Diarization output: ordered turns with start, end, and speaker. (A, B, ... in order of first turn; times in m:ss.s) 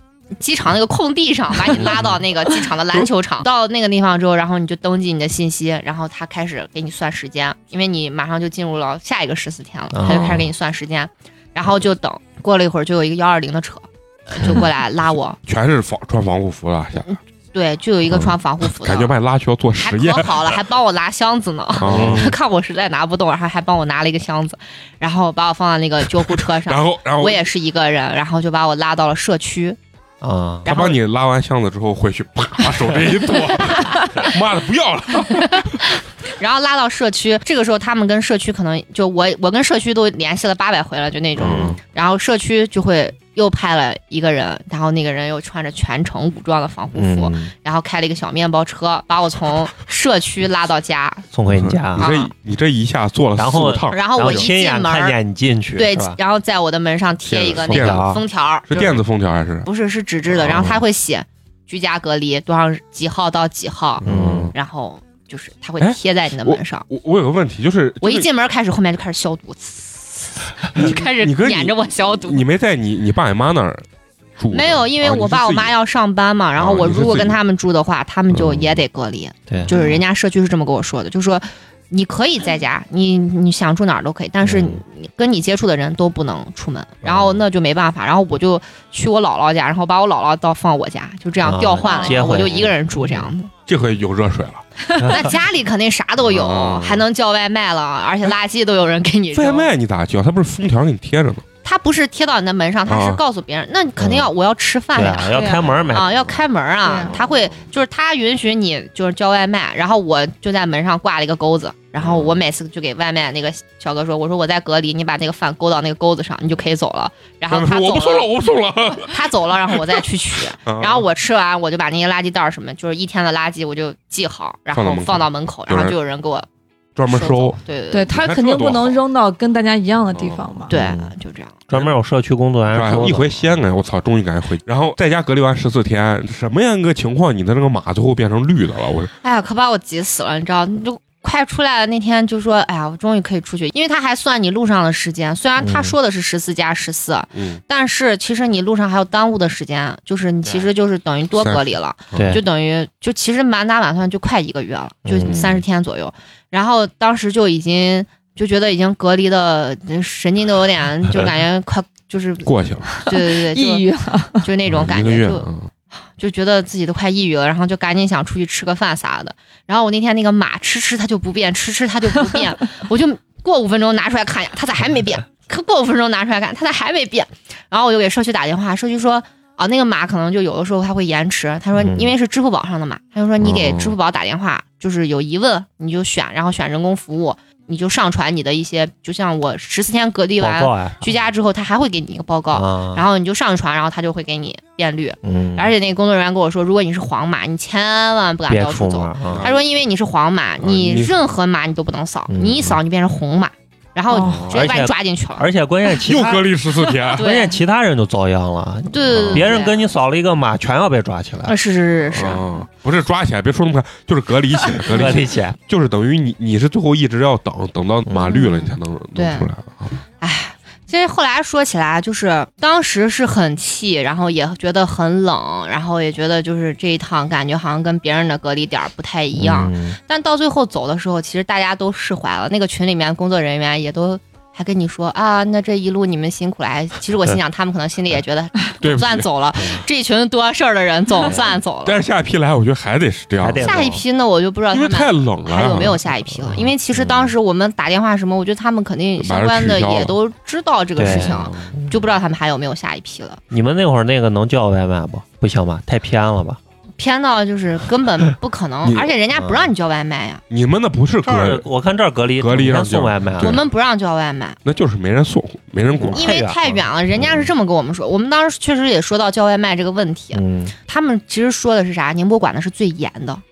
0:00.4-0:15.4 A
0:01.8-0:02.1 B
0:09.9-0:10.5 B
0:15.4-0:17.1 C
0:17.0-0:19.1 A
0:18.1-0:20.6 C
0:19.8-0:29.8 A
0:21.8-0:22.3 C
0:21.8-0:22.4 B
0:26.6-0:27.4 C
0:30.2-0:30.7 B
0:30.6-0:31.0 A
0:30.7-0:35.8 C
0:33.8-0:34.3 A
0:35.4-0:51.2 A
0:41.4-0:41.8 C
0:41.4-0:41.7 B
0:46.9-0:47.5 B
0:51.3-0:52.1 B
0:51.5-0:54.4 C
0:52.0-0:52.3 A
0:53.4-0:56.2 B
0:53.9-0:55.2 A
0:55.8-0:58.9 A
0:57.2-0:59.7 C
0:57.6-0:58.2 B
0:59.6-1:06.8 A
1:00.4-1:00.8 B
1:04.0-1:04.5 C
1:04.0-1:04.5 B
1:05.8-1:08.3 C
1:08.0-1:12.4 A
1:10.7-1:13.8 C
1:14.4-1:15.7 C
1:14.5-1:33.5 A
1:16.6-1:17.4 C
1:18.3-1:18.6 C
1:19.5-1:20.0 B
1:24.4-1:24.8 B
1:31.4-1:33.2 B
1:33.7-1:34.6 C
1:34.9-1:39.7 A
1:35.0-1:35.3 B
1:36.3-1:37.0 C
1:39.3-1:41.4 C
1:41.6-1:58.3 A
1:42.9-1:43.2 C
1:44.0-1:44.3 B
1:44.9-1:46.4 B
1:46.9-1:47.1 D
1:57.5-1:59.8 C
1:59.0-2:06.5 A
2:00.6-2:01.0 C
2:04.7-2:06.0 C
2:07.0-2:07.6 C
2:07.1-2:08.1 A
2:07.9-2:10.7 D
2:08.1-2:09.0 C
2:10.1-2:10.6 C
2:10.7-2:11.5 A
2:10.7-2:11.1 B
2:11.7-2:13.3 B
2:12.7-2:19.1 C
2:19.2-2:43.9 A
2:25.6-2:25.9 B
2:27.3-2:27.6 C
2:31.4-2:32.4 C
2:32.1-2:32.4 B
2:35.0-2:35.6 B
2:35.2-2:35.5 C
2:42.4-2:42.9 C
2:43.0-2:44.4 D
2:44.4-2:45.5 A
2:44.7-2:45.7 C
2:46.2-3:25.5 A
3:01.7-3:02.1 B
3:03.4-3:03.9 C
3:10.4-3:11.1 B
3:12.5-3:13.0 B
3:15.2-3:15.7 B
3:18.5-3:19.5 B
3:19.3-3:19.6 C
3:20.6-3:21.2 C
3:22.3-3:22.8 B
3:24.1-3:24.5 D
3:24.3-3:24.6 C
3:24.3-3:26.4 B
3:26.0-3:27.3 C
3:27.1-3:27.6 A
3:27.1-3:31.5 B
3:28.9-3:29.9 A
3:29.1-3:29.6 C
3:31.4-3:32.6 A
3:32.1-3:39.9 C
3:34.8-3:35.6 B
3:38.1-3:38.4 B
3:38.3-3:39.5 A
3:40.2-4:02.0 A
3:49.3-3:50.0 B
3:58.8-3:59.3 C
4:01.8-4:03.7 C
4:03.4-4:04.0 B
4:03.6-4:13.4 A
4:04.7-4:06.0 C
4:06.6-4:07.3 B
4:09.2-4:10.1 C
4:11.0-4:12.0 B
4:11.1-4:11.7 C
4:13.5-4:16.6 B
4:17.0-4:20.4 A
4:18.8-4:19.1 C
4:19.3-4:19.7 B
4:20.5-4:21.6 C
4:21.2-4:23.6 B
4:22.4-4:23.6 C
4:23.4-4:24.6 A
4:24.6-4:26.3 C
4:26.0-4:27.5 B
4:26.1-4:33.4 A
4:30.3-4:30.7 B